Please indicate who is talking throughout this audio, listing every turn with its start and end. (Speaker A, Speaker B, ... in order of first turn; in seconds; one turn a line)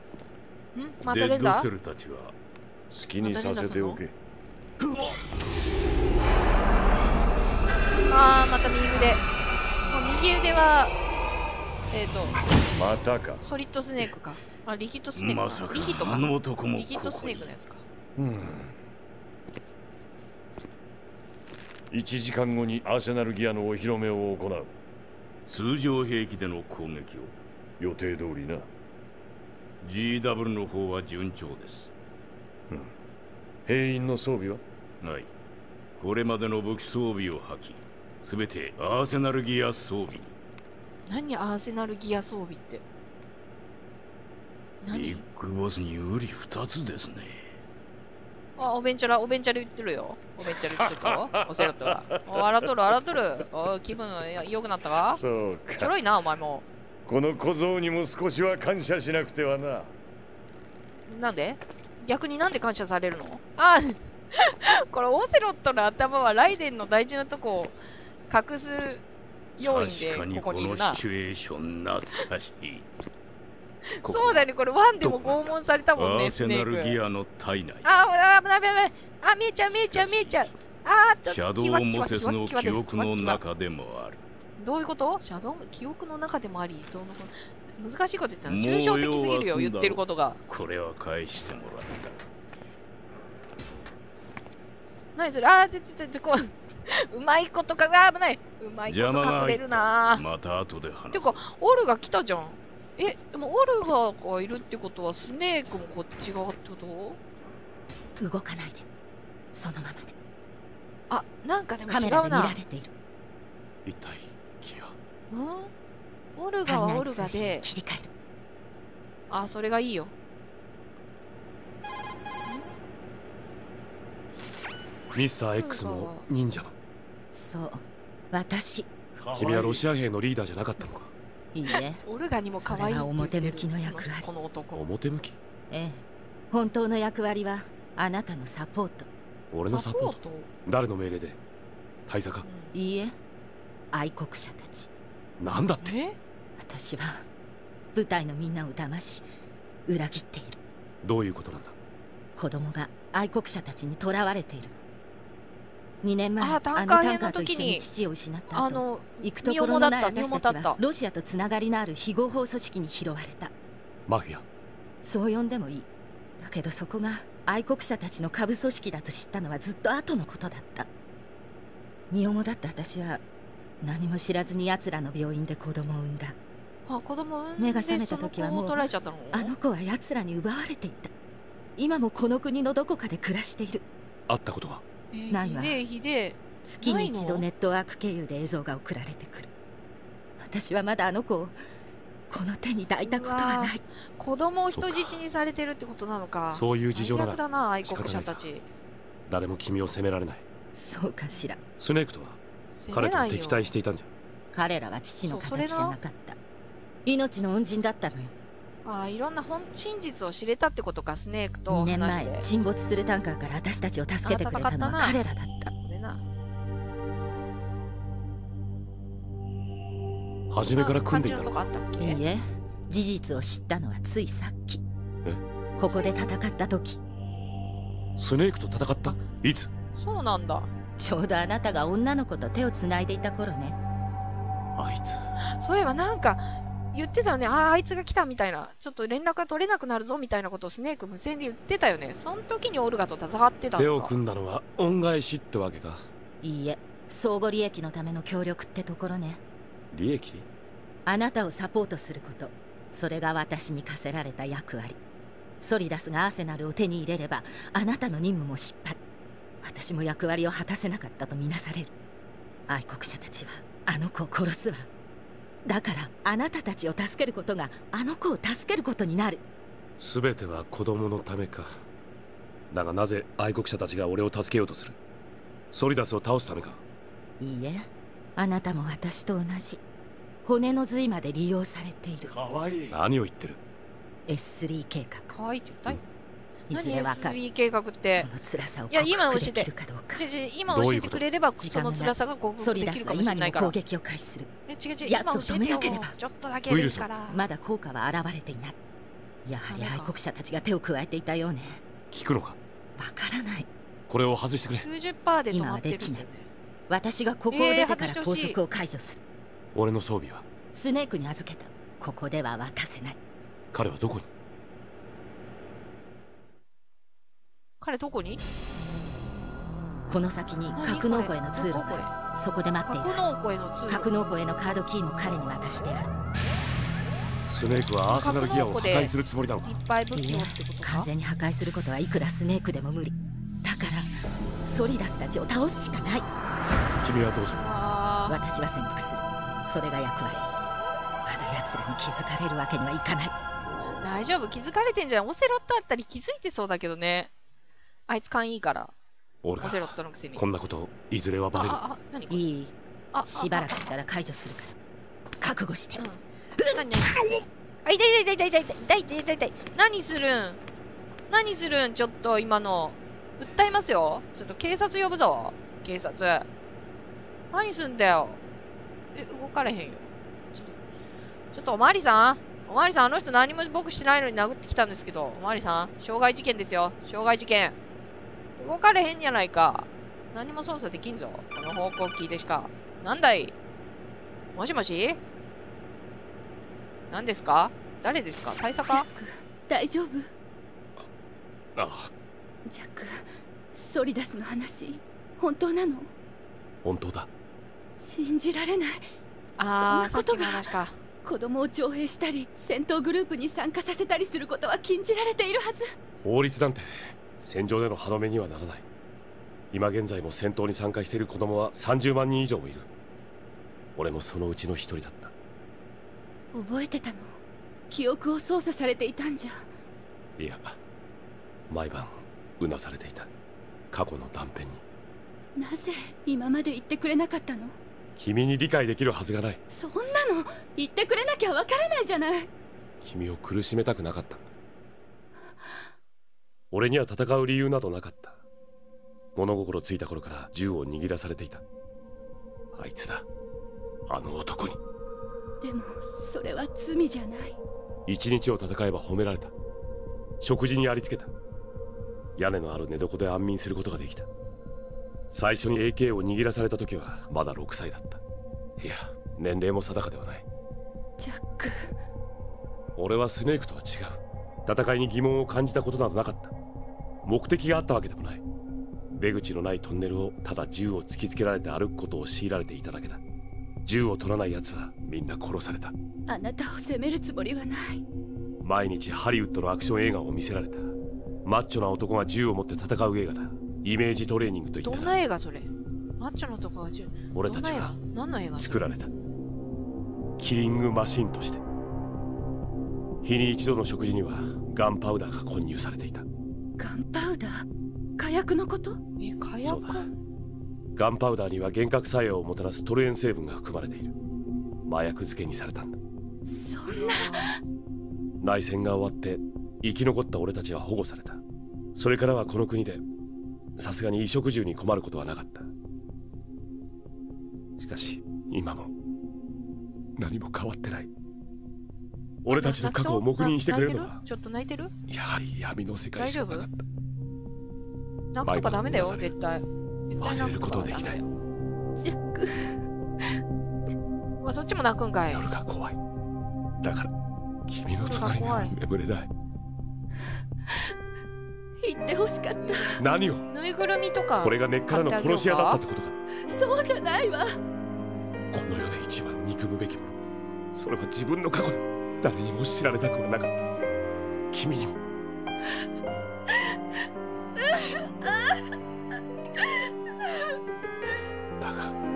Speaker A: 0.8-1.7
Speaker B: 1.0-2.4
Speaker C: 2.9-4.2
Speaker A: 3.2-4.0
Speaker A: 8.1-9.3
Speaker A: 9.8-11.0
Speaker A: 11.9-12.4
Speaker C: 12.7-13.4
Speaker A: 13.4-17.8
Speaker B: 15.2-17.5
Speaker C: 18.2-18.8
Speaker C: 21.9-24.8
Speaker B: 25.5-27.4
Speaker C: 27.8-28.7
Speaker B: 29.8-31.9
Speaker C: 33.7-34.6
Speaker B: 35.0-35.3
Speaker B: 36.0-40.3
Speaker A: 41.1-42.8
Speaker A: 44.8-45.2
Speaker B: 44.9-47.5
Speaker A: 48.6-55.2
Speaker C: 55.1-55.9
Speaker A: 55.8-56.7
Speaker C: 57.1-60.0
Speaker A: 61.1-67.8
Speaker A: 68.3-69.0
Speaker A: 69.6-71.0
Speaker B: 69.6-72.9
Speaker A: 73.9-77.0
Speaker D: 74.1-74.5
Speaker B: 75.0-77.9
Speaker A: 77.8-83.4
Speaker B: 79.8-80.4
Speaker B: 81.3-84.2
Speaker A: 84.6-90.4
Speaker B: 88.5-92.1
Speaker A: 95.2-100.2
Speaker B: 98.9-101.4
Speaker A: 101.1-107.2
Speaker E: 108.2-108.9
Speaker E: 109.5-110.2
Speaker A: 111.1-112.6
Speaker E: 111.9-112.9
Speaker D: 113.9-114.9
Speaker A: 115.3-115.7
Speaker A: 116.4-117.7
Speaker E: 116.7-118.1
Speaker A: 119.3-120.1
Speaker D: 125.1-126.7
Speaker A: 125.6-126.3
Speaker E: 127.3-128.9
Speaker C: 129.2-129.8
Speaker D: 129.3-131.1
Speaker E: 131.5-132.0
Speaker A: 132.0-134.9
Speaker E: 132.6-134.3
Speaker D: 134.8-135.4
Speaker E: 135.7-139.1
Speaker D: 139.5-141.4
Speaker A: 139.6-140.5
Speaker D: 142.1-142.5
Speaker A: 142.4-142.7
Speaker E: 142.7-143.2
Speaker E: 143.9-144.9
Speaker D: 145.4-146.0
Speaker A: 145.8-146.2
Speaker E: 146.6-147.3
Speaker E: 147.9-149.3
Speaker E: 149.9-150.6
Speaker D: 151.0-151.8
Speaker E: 152.4-154.8
Speaker E: 156.0-163.5
Speaker A: 156.4-157.9
Speaker A: 158.5-160.8
Speaker D: 164.1-164.4
Speaker E: 165.0-165.9
Speaker E: 166.4-170.9
Speaker E: 172.1-173.2
Speaker E: 173.8-176.4
Speaker A: 176.9-179.5
Speaker E: 177.6-181.1
Speaker E: 181.8-183.8
Speaker D: 184.3-184.8
Speaker A: 185.1-187.5
Speaker E: 185.3-185.8
Speaker E: 186.6-189.5
Speaker E: 190.4-191.6
Speaker E: 192.3-193.8
Speaker A: 193.0-198.7
Speaker D: 194.7-195.2
Speaker D: 196.5-198.5
Speaker D: 199.3-200.4
Speaker E: 200.7-201.6
Speaker D: 201.7-202.4
Speaker A: 202.7-203.7
Speaker D: 202.9-204.1
Speaker E: 204.5-206.4
Speaker A: 205.2-206.0
Speaker E: 207.1-208.3
Speaker A: 208.8-212.5
Speaker E: 211.7-215.7
Speaker A: 214.2-215.2
Speaker A: 215.8-216.2
Speaker D: 220.5-221.6
Speaker A: 220.6-222.2
Speaker E: 222.0-224.8
Speaker A: 225.8-226.3
Speaker E: 225.8-227.0
Speaker D: 228.2-229.7
Speaker A: 229.9-230.7
Speaker E: 231.0-233.8
Speaker D: 234.8-235.2
Speaker A: 235.6-244.1
Speaker D: 243.8-246.1
Speaker E: 246.4-249.4
Speaker D: 249.9-250.5
Speaker E: 251.1-255.0
Speaker E: 255.6-259.0
Speaker E: 259.6-261.9
Speaker E: 262.7-264.9
Speaker E: 265.6-269.4
Speaker D: 270.0-271.8
Speaker D: 272.7-275.0
Speaker D: 275.7-276.8
Speaker E: 277.4-279.8
Speaker E: 280.4-282.3
Speaker C: 282.3-283.0
Speaker D: 282.9-283.6
Speaker E: 284.3-285.4
Speaker A: 285.3-286.1
Speaker E: 286.7-287.4
Speaker A: 286.7-288.3
Speaker E: 288.1-290.2
Speaker A: 288.9-293.8
Speaker D: 290.7-291.3
Speaker E: 291.6-294.5
Speaker A: 294.7-297.4
Speaker E: 295.0-296.1
Speaker D: 296.7-297.1
Speaker E: 297.3-298.8
Speaker E: 299.4-301.8
Speaker A: 299.7-300.1
Speaker D: 302.1-302.6
Speaker E: 303.0-303.7
Speaker D: 304.1-304.9
Speaker A: 304.8-306.5
Speaker E: 305.5-306.3
Speaker E: 306.9-309.2
Speaker A: 307.5-308.6
Speaker D: 309.7-310.5
Speaker E: 310.7-313.2
Speaker D: 313.7-314.3
Speaker A: 317.8-318.4
Speaker E: 320.1-326.1
Speaker A: 320.8-322.1
Speaker A: 322.9-324.1
Speaker D: 327.5-329.8
Speaker A: 328.0-331.1
Speaker E: 330.1-336.3
Speaker D: 337.0-337.6
Speaker A: 337.6-338.4
Speaker E: 338.3-340.4
Speaker E: 341.3-343.3
Speaker A: 344.0-347.3
Speaker A: 348.1-348.9
Speaker D: 349.4-351.8
Speaker A: 349.6-350.4
Speaker A: 351.5-352.5
Speaker E: 352.3-352.7
Speaker A: 353.1-353.9
Speaker E: 353.3-354.8
Speaker E: 355.4-357.4
Speaker A: 356.0-360.6
Speaker A: 361.3-366.5
Speaker A: 367.5-368.4
Speaker A: 369.1-370.8
Speaker A: 371.5-377.8
Speaker A: 378.6-383.6
Speaker A: 384.6-385.2
Speaker A: 387.1-389.1
Speaker F: 388.9-390.3
Speaker D: 391.8-392.1
Speaker F: 392.7-396.1
Speaker D: 396.8-397.3
Speaker F: 398.0-399.1
Speaker A: 399.6-401.0
Speaker F: 399.6-400.7
Speaker F: 401.2-405.9
Speaker D: 406.2-408.9
Speaker D: 409.7-412.9
Speaker D: 414.0-415.3
Speaker F: 416.5-417.3
Speaker F: 417.9-419.7
Speaker D: 420.4-420.8
Speaker D: 421.7-423.3
Speaker D: 423.9-424.8
Speaker F: 425.6-427.8
Speaker D: 428.2-429.6
Speaker F: 429.7-432.5
Speaker D: 433.0-434.5
Speaker D: 436.7-438.4
Speaker D: 439.4-441.6
Speaker D: 442.7-443.2
Speaker D: 444.1-444.8
Speaker F: 445.6-447.6
Speaker D: 448.1-449.5
Speaker D: 450.4-451.3
Speaker D: 452.4-454.3
Speaker D: 455.3-458.2
Speaker D: 458.8-460.4
Speaker F: 461.2-461.9
Speaker D: 463.0-466.5
Speaker D: 467.2-468.4
Speaker D: 469.1-473.2
Speaker D: 473.9-475.9
Speaker F: 476.3-478.0
Speaker D: 478.6-480.9
Speaker D: 481.4-485.1
Speaker A: 484.8-488.8
Speaker D: 487.3-487.9
Speaker D: 488.6-489.1
Speaker D: 490.4-491.6
Speaker D: 493.2-496.3
Speaker F: 496.8-497.7
Speaker F: 498.2-499.0
Speaker A: 499.2-500.1
Speaker D: 499.6-500.1
Speaker D: 501.0-504.1
Speaker D: 504.9-506.0
Speaker F: 506.5-507.6
Speaker A: 506.9-507.4
Speaker D: 508.4-511.4
Speaker D: 512.0-513.0
Speaker D: 513.8-515.7
Speaker D: 517.8-518.9
Speaker D: 520.2-521.1
Speaker D: 522.4-524.2
Speaker A: 522.5-524.9
Speaker D: 525.1-526.8
Speaker A: 526.2-526.7
Speaker A: 528.3-531.3
Speaker D: 528.4-529.4
Speaker D: 530.2-531.2
Speaker F: 532.0-532.8
Speaker A: 534.4-535.5
Speaker D: 535.3-536.0
Speaker D: 536.8-537.1
Speaker D: 537.7-539.3
Speaker A: 538.0-538.8
Speaker F: 541.9-543.0
Speaker A: 542.5-545.8
Speaker D: 543.0-543.5
Speaker D: 544.4-546.1
Speaker F: 546.5-547.5
Speaker D: 548.5-550.2
Speaker D: 550.7-553.6
Speaker D: 554.5-555.0
Speaker F: 557.7-558.6
Speaker D: 561.6-562.0